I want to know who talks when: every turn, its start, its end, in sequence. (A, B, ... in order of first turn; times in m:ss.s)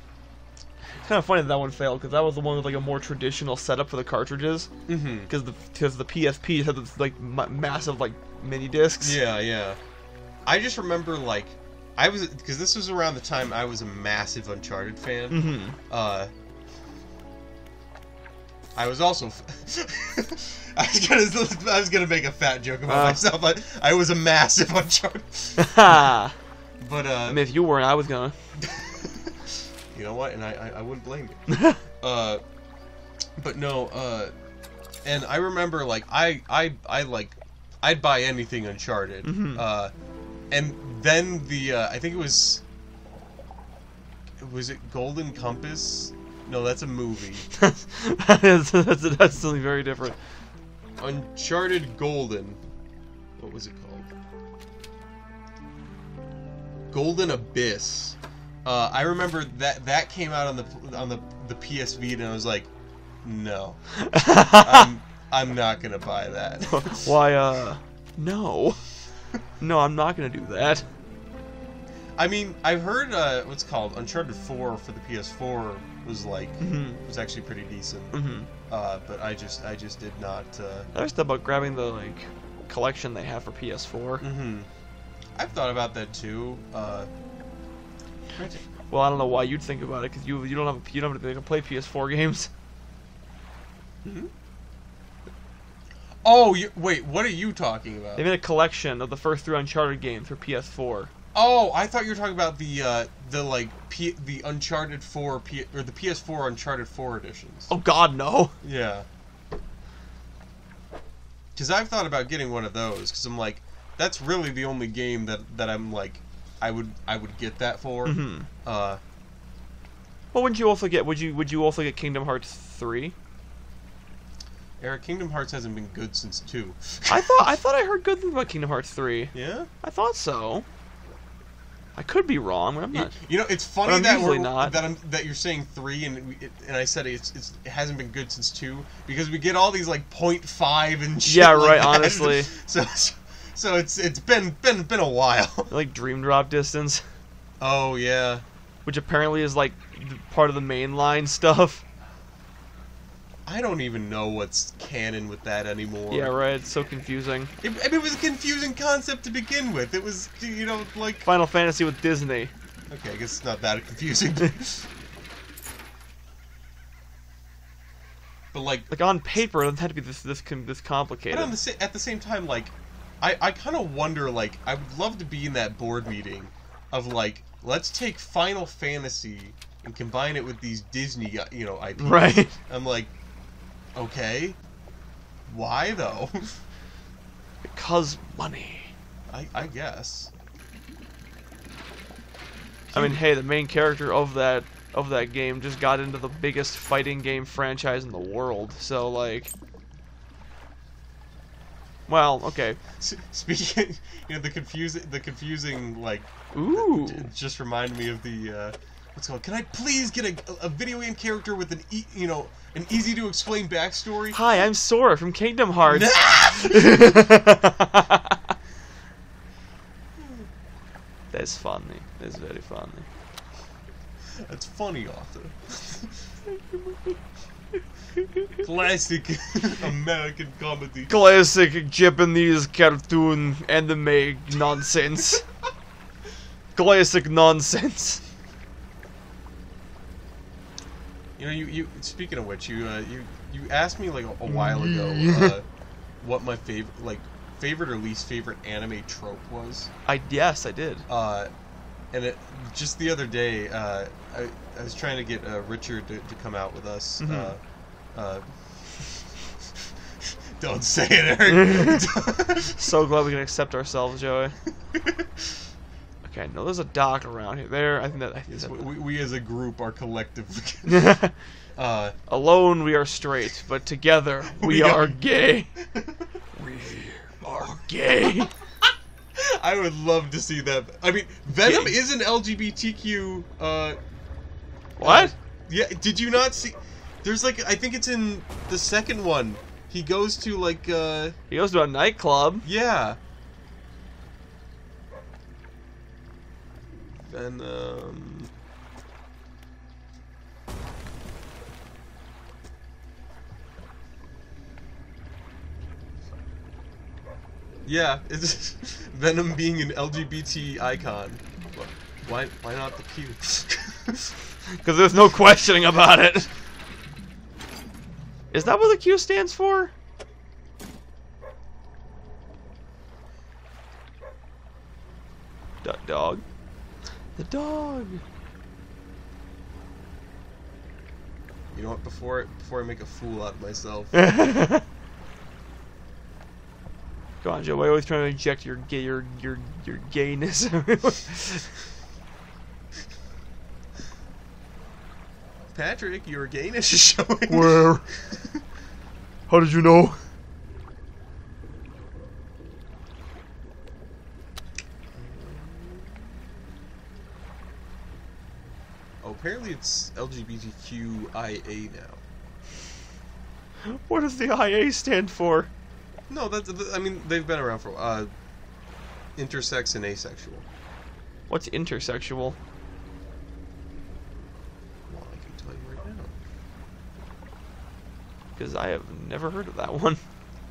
0:01.0-0:04.7 A
0:04.9-0:05.3 B
0:05.3-0:09.2 A
0:09.0-0:09.8 B
0:10.4-0:16.3 B
0:15.3-0:15.8 A
0:18.7-0:26.1 B
0:22.9-0:23.2 A
0:25.6-0:26.3 A
0:26.8-0:27.4 B
0:27.3-0:28.3 A
0:28.6-0:29.3 B
0:29.9-0:32.4 B
0:31.5-0:31.8 A
0:33.4-0:34.3 B
0:35.0-0:39.9 B
0:39.2-0:39.7 A
0:40.5-0:42.6 B
0:44.4-0:47.5 B
0:47.6-0:50.2 A
0:51.0-0:52.6 B
0:53.4-0:54.1 B
0:56.9-1:02.7 B
1:03.2-1:07.1 B
1:04.0-1:04.9 A
1:06.7-1:08.8 A
1:09.6-1:10.8 A
1:12.2-1:20.9 B
1:16.6-1:17.0 A
1:18.1-1:18.5 A
1:20.9-1:24.2 A
1:24.2-1:24.7 B
1:25.4-1:27.1 B
1:28.4-1:32.5 A
1:34.0-1:34.3 B
1:36.2-1:38.2 B
1:38.2-1:41.1 A
1:41.3-1:47.7 B
1:47.7-1:48.5 A
1:48.6-1:49.1 B
1:51.5-1:59.0 B
1:58.0-1:58.5 A
2:00.3-2:03.2 A
2:04.8-2:07.5 B
2:07.1-2:10.6 A
2:09.3-2:09.7 B
2:12.0-2:13.2 A
2:12.9-2:25.7 B
2:13.8-2:14.8 A
2:21.2-2:22.5 A
2:25.7-2:27.0 A
2:27.6-2:28.4 B
2:28.8-2:31.8 A
2:33.4-2:36.3 B
2:36.1-2:37.5 A
2:37.6-2:41.3 B
2:41.2-2:42.5 A
2:42.9-2:44.9 B
2:48.5-2:48.9 B
2:48.9-2:51.6 A
2:51.3-3:03.1 B
3:02.0-3:02.5 A
3:03.9-3:04.6 B
3:05.5-3:06.6 B
3:07.6-3:08.9 A
3:09.3-3:10.3 B
3:12.9-3:13.2 B
3:12.9-3:19.5 A
3:22.1-3:22.8 A
3:23.0-3:34.4 B
3:26.5-3:27.3 A
3:34.3-3:38.4 A
3:35.8-3:37.3 B
3:41.3-3:43.1 A
3:44.4-3:46.2 B
3:46.5-3:47.2 A
3:48.2-3:48.6 A
3:48.6-3:51.2 B
3:51.1-3:55.4 A
3:56.7-3:58.2 A
4:01.4-4:05.6 B
4:04.5-4:05.6 A
4:06.2-4:09.9 B
4:10.0-4:11.0 A
4:11.1-4:11.5 B
4:12.1-4:17.6 B
4:17.2-4:17.5 A
4:18.1-4:19.4 B
4:20.2-4:22.9 B
4:21.5-4:22.0 A
4:22.7-4:24.6 A
4:24.9-4:25.2 B
4:26.2-4:28.8 A
4:28.5-4:31.2 B
4:30.9-4:31.3 A
4:31.8-4:32.1 B
4:32.3-4:35.7 A
4:34.5-4:35.2 B
4:35.9-4:36.2 B
4:36.5-4:38.5 A
4:37.4-4:38.5 B
4:39.3-4:44.0 B
4:41.6-4:42.0 A
4:45.0-4:45.3 A
4:45.0-4:51.4 B
4:51.5-4:52.7 A
4:52.6-4:53.2 B
4:57.3-4:58.5 B
5:07.8-5:14.3 B
5:14.8-5:16.5 A
5:18.5-5:19.9 A
5:25.8-5:26.4 A
5:27.4-5:28.2 A
5:31.7-5:34.1 B
5:34.1-5:34.8 A
5:37.4-5:41.7 A
5:45.7-5:48.5 B
5:47.5-5:48.1 A
5:49.5-5:50.2 A
5:55.1-5:56.2 B
5:59.2-6:02.2 B
6:03.9-6:05.7 A
6:06.3-6:08.3 B
6:09.4-6:10.6 B
6:11.5-6:12.6 A
6:15.1-6:16.3 B
6:18.6-6:20.2 A